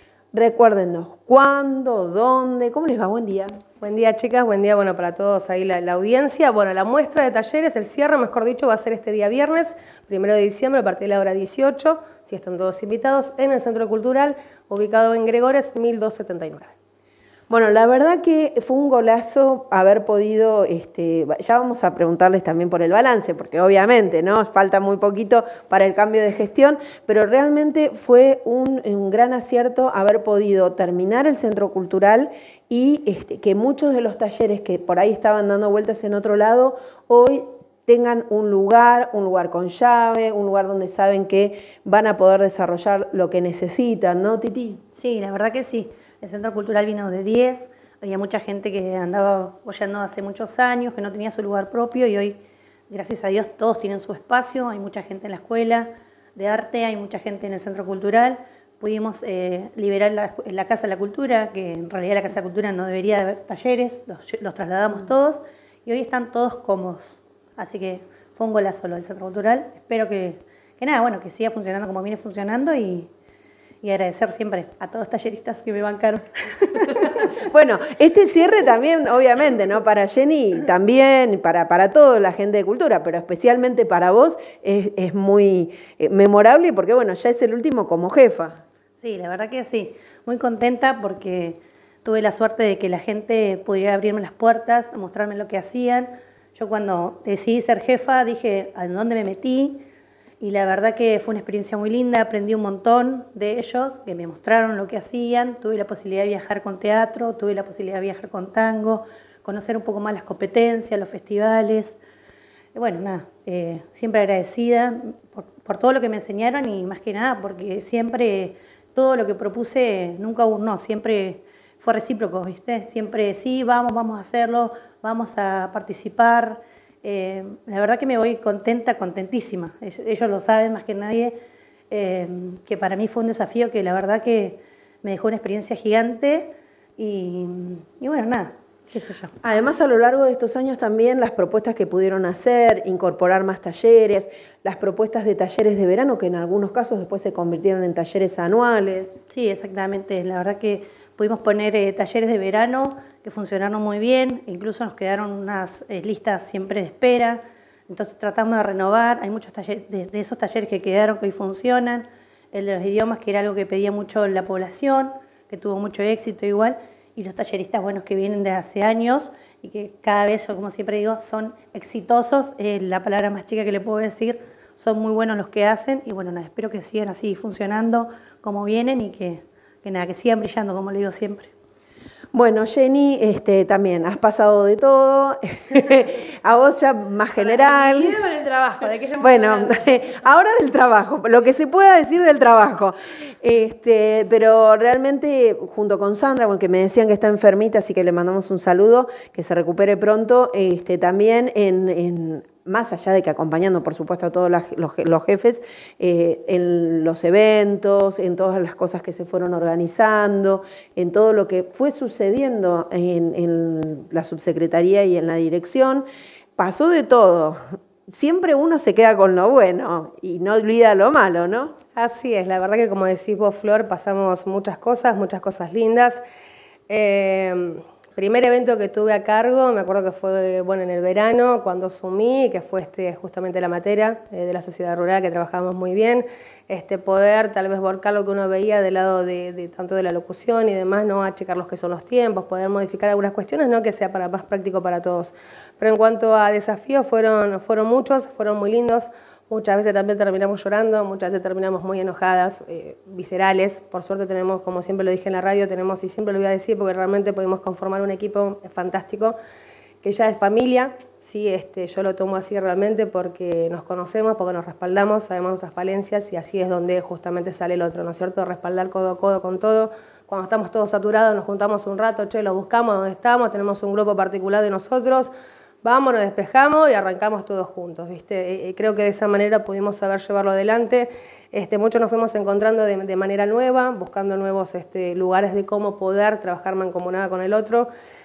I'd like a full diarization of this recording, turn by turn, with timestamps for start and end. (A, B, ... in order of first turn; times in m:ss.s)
0:00.3-0:03.5 A
0:03.8-0:16.7 B
0:17.5-0:44.8 A
0:45.0-0:52.4 C
0:52.9-1:13.1 C
1:13.8-1:17.2 C
1:17.4-1:28.6 A
1:29.0-1:39.8 C
1:40.4-1:52.0 C
1:52.8-2:11.4 C
2:11.9-2:19.4 C
2:19.4-2:29.2 A
2:29.3-3:01.5 C
3:02.3-3:08.2 A
3:07.4-3:09.9 B
3:09.2-3:36.0 A
3:36.6-3:41.8 A
3:42.0-3:46.2 B
3:46.9-4:19.4 B
4:20.0-4:35.3 B
4:35.8-4:47.9 B